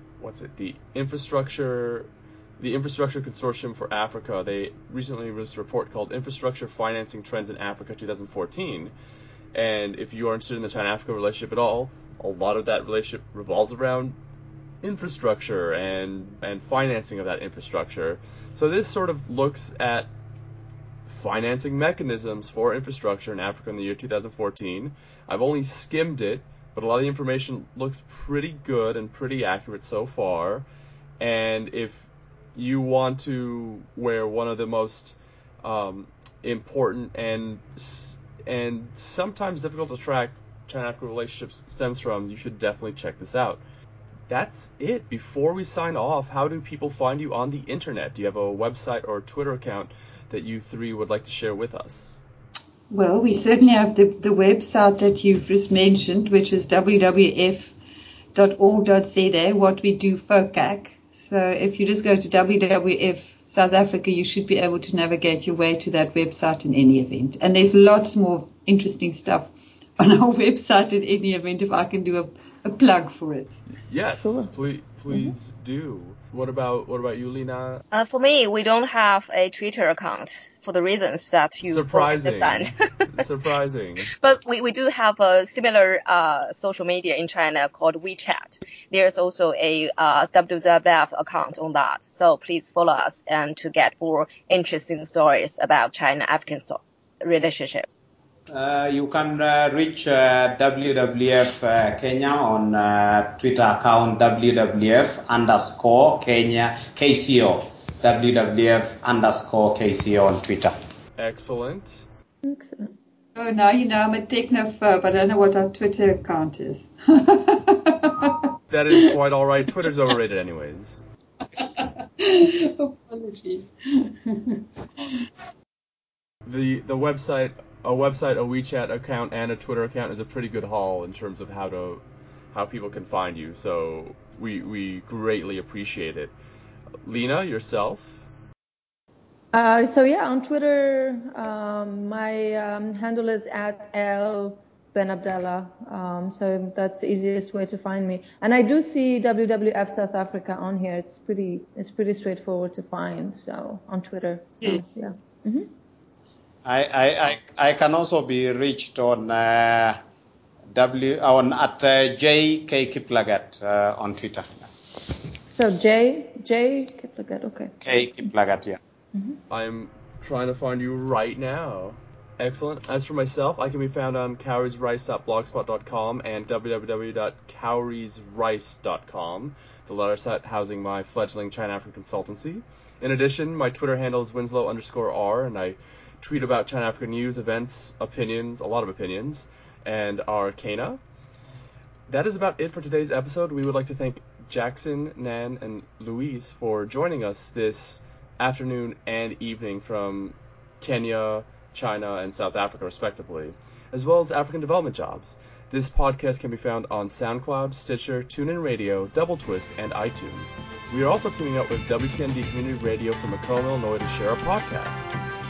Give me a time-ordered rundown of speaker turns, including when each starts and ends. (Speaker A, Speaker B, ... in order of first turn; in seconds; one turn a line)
Speaker A: 0.2-8.9
Speaker A: 9.5-14.2
Speaker A: 14.8-20.1
Speaker A: 21.1-30.7
Speaker A: 31.2-43.6
Speaker A: 44.3-52.2
Speaker B: 52.9-57.8
Speaker B: 58.3-73.6
Speaker A: 73.8-77.8
Speaker C: 74.2-74.5
Speaker D: 77.9-82.7
Speaker A: 81.7-84.1
Speaker D: 84.1-98.0
Speaker E: 98.5-110.7
Speaker A: 111.2-112.1
Speaker C: 112.4-112.9
Speaker B: 113.4-119.0
Speaker A: 118.7-121.0
Speaker B: 121.6-125.3
Speaker A: 126.5-136.3
Speaker A: 137.0-138.3
Speaker C: 139.5-155.7
Speaker B: 154.6-154.9
Speaker E: 156.7-160.0
Speaker E: 160.7-164.7
Speaker C: 165.5-167.8
Speaker E: 167.8-168.8
Speaker A: 169.5-191.0
Speaker A: 192.1-215.1